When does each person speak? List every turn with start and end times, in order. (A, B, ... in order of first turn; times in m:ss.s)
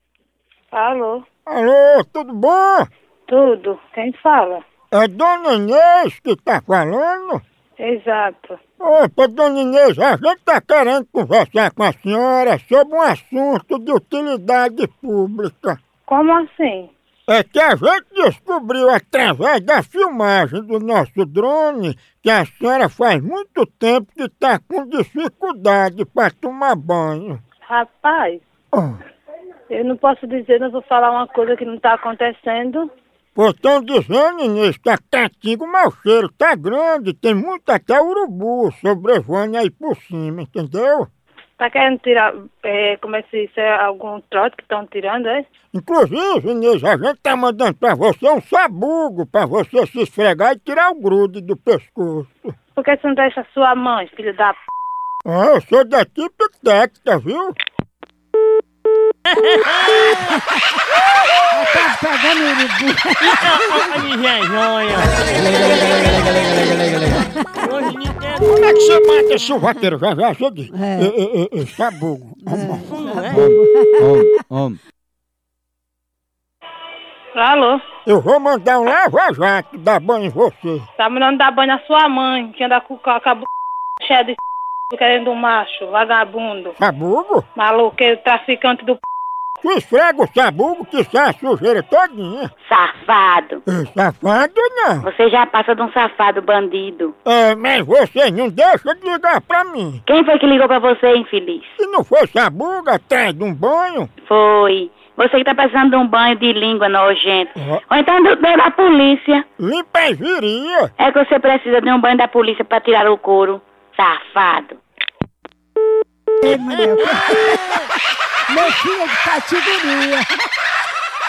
0:00.7-0:01.2 A
0:01.4-0:02.9 B
0:03.3-0:04.6 A
0:04.9-0:07.4 B
0:07.8-0:08.6 A
0:08.8-0:15.8 B
0:16.1-0:16.9 A
0:17.3-0:27.4 B
0:27.7-0:28.4 A
0:28.7-0:29.0 B
0:29.7-0:32.9 A
0:33.4-0:41.1 B
0:41.6-0:45.4 A
0:45.7-0:52.3 B
0:52.8-0:54.6 A
0:55.2-0:57.6 B
0:59.5-1:00.1 C
1:01.5-1:04.0 D
1:03.2-1:05.2 C
1:05.5-1:07.2 E
1:07.6-1:08.4 C
1:08.4-1:13.4 B
1:10.7-1:11.1 D
1:12.5-1:14.1 D
1:12.9-1:13.4 C
1:13.4-1:14.8 E
1:17.3-1:17.8 A
1:18.0-1:20.8 B
1:21.0-1:23.4 A
1:24.0-1:24.4 A
1:24.9-1:26.7 A
1:26.8-1:27.4 B
1:27.6-1:29.0 A
1:29.6-1:32.5 B
1:32.6-1:33.6 F
1:33.7-1:35.1 B
1:35.0-1:37.1 F
1:37.2-1:40.0 B
1:40.0-1:41.7 F
1:41.8-1:44.1 B
1:44.3-1:49.4 F
1:49.6-1:50.9 B
1:51.0-1:54.8 F
1:56.4-1:57.8 D
1:58.5-2:00.2 D